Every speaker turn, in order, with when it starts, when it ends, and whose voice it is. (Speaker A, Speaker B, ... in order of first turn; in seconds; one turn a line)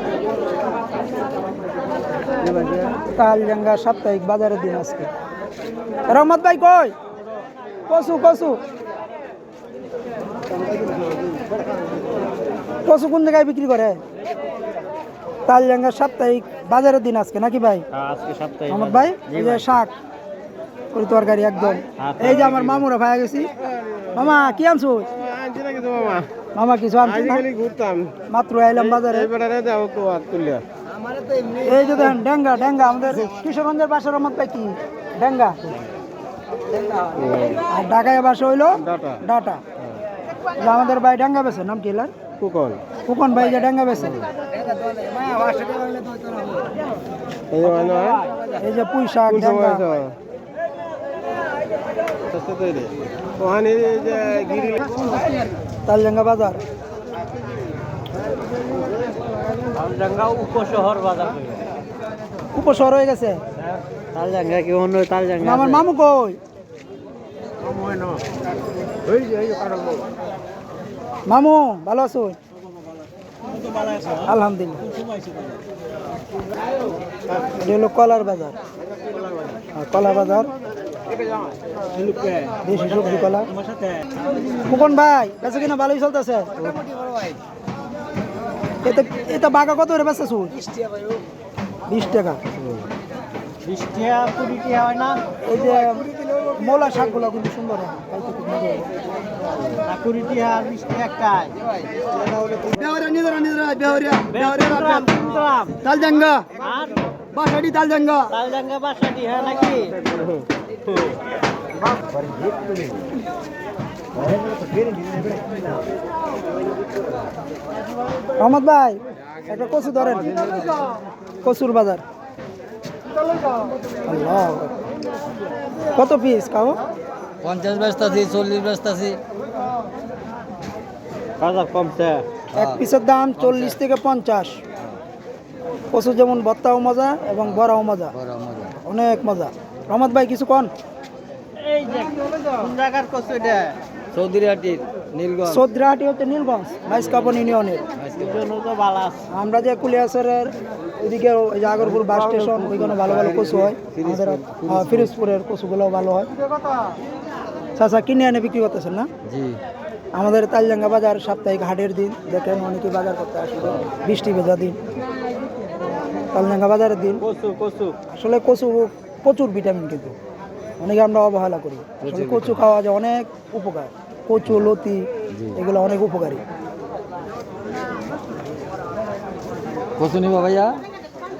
Speaker A: 2.4-5.1
Speaker A: 6.1-6.9
Speaker A: 7.9-8.6
Speaker A: 12.8-14.0
Speaker A: 15.4-17.8
Speaker B: 17.9-19.6
Speaker A: 18.7-19.9
Speaker A: 20.9-23.5
Speaker B: 22.0-22.8
Speaker A: 24.1-25.1
Speaker C: 25.2-26.3
Speaker A: 26.5-27.5
Speaker C: 27.2-28.2
Speaker A: 28.3-29.3
Speaker C: 28.9-30.6
Speaker A: 31.6-35.7
Speaker C: 37.1-37.6
Speaker A: 37.7-39.6
Speaker C: 38.9-39.2
Speaker A: 40.6-42.1
Speaker C: 42.4-42.8
Speaker A: 43.0-44.2
Speaker B: 45.0-46.2
Speaker C: 47.5-48.2
Speaker B: 47.9-48.2
Speaker A: 48.6-49.9
Speaker C: 49.4-50.1
Speaker C: 52.3-55.1
Speaker A: 55.9-56.6
Speaker B: 59.7-61.7
Speaker A: 62.5-63.4
Speaker B: 63.6-65.8
Speaker A: 65.4-66.4
Speaker A: 71.3-72.3
Speaker A: 74.2-74.9
Speaker A: 77.5-78.6
Speaker A: 79.7-80.5
Speaker B: 81.9-83.0
Speaker A: 82.6-83.5
Speaker A: 84.6-86.7
Speaker B: 86.7-87.2
Speaker A: 88.8-90.6
Speaker A: 91.9-92.4
Speaker B: 93.6-95.2
Speaker A: 95.4-98.9
Speaker B: 99.8-101.6
Speaker C: 102.5-102.8
Speaker A: 102.9-104.2
Speaker B: 104.2-105.8
Speaker A: 105.8-106.5
Speaker B: 106.5-107.2
Speaker A: 107.4-108.3
Speaker B: 108.3-110.0
Speaker A: 118.4-120.6
Speaker D: 120.4-120.7
Speaker A: 121.4-122.0
Speaker A: 124.0-124.8
Speaker A: 125.9-126.8
Speaker D: 127.4-129.2
Speaker B: 131.4-132.2
Speaker D: 132.5-132.8
Speaker A: 132.5-134.6
Speaker D: 133.4-133.7
Speaker A: 135.9-138.1
Speaker D: 138.1-138.7
Speaker A: 138.8-140.7
Speaker B: 141.6-143.7
Speaker D: 144.1-145.7
Speaker A: 145.5-147.8
Speaker D: 147.9-148.4
Speaker B: 148.2-149.2
Speaker A: 149.3-156.3
Speaker D: 153.8-155.1
Speaker A: 157.8-159.1
Speaker D: 159.2-159.6
Speaker A: 160.1-164.8
Speaker A: 166.3-167.2
Speaker B: 167.2-167.9
Speaker A: 168.1-170.2
Speaker A: 170.8-176.4
Speaker D: 172.0-172.6
Speaker D: 175.3-175.6
Speaker D: 180.0-180.8